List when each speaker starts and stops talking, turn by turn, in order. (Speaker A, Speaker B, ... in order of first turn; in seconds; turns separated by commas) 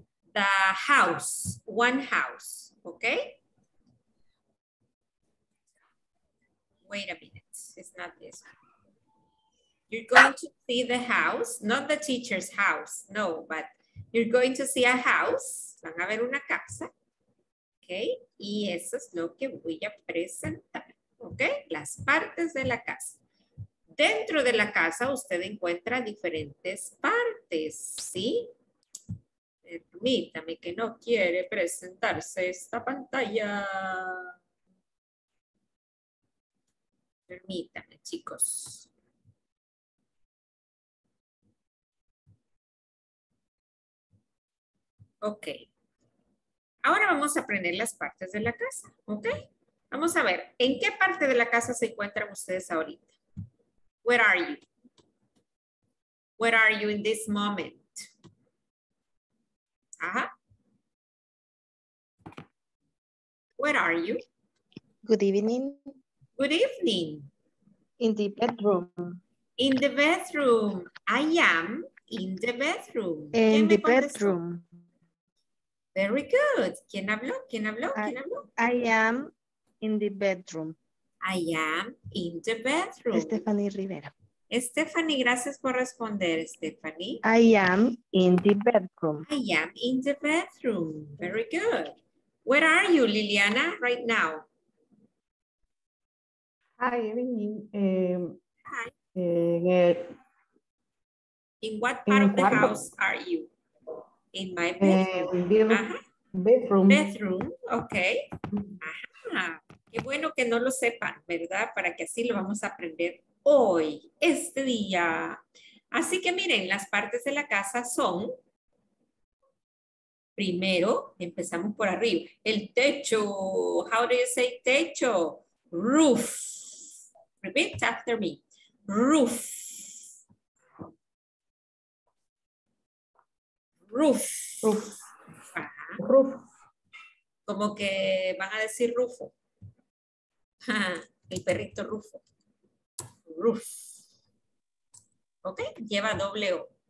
Speaker A: 0.3-3.4, Speaker A: 6.9-8.5, Speaker A: 9.9-16.9, Speaker A: 17.8-23.2, Speaker A: 23.9-28.5, Speaker A: 29.6-34.3, Speaker A: 37.3-38.9, Speaker A: 45.2-45.5, Speaker A: 46.8-49.3, Speaker A: 49.9-53.1, Speaker A: 54.0-54.6, Speaker A: 56.4-58.1, Speaker A: 60.0-60.3, Speaker A: 63.6-64.2, Speaker B: 65.0-65.8, Speaker A: 66.4-67.3, Speaker B: 68.0-69.2, Speaker A: 69.6-74.4, Speaker B: 73.3-74.8, Speaker A: 75.9-78.5, Speaker B: 77.9-79.3, Speaker B: 79.8-80.8, Speaker A: 81.2-83.4, Speaker B: 83.1-84.1, Speaker A: 84.5-87.2, Speaker B: 87.2-89.2, Speaker A: 89.2-91.9, Speaker A: 92.5-94.5, Speaker C: 96.8-98.4, Speaker A: 98.6-98.9, Speaker C: 99.1-100.1, Speaker A: 101.6-103.5, Speaker C: 102.1-102.8, Speaker A: 104.3-105.1, Speaker C: 104.8-107.1, Speaker A: 105.7-106.0, Speaker A: 106.9-108.2, Speaker A: 108.8-115.4, Speaker A: 115.9-118.3, Speaker A: 120.4-126.9, Speaker A: 127.4-129.9, Speaker A: 133.9-134.8, Speaker C: 134.6-134.9, Speaker A: 135.5-136.0, Speaker C: 136.0-136.4, Speaker A: 137.5-139.3, Speaker A: 140.7-142.2, Speaker A: 143.3-143.9, Speaker A: 145.4-146.7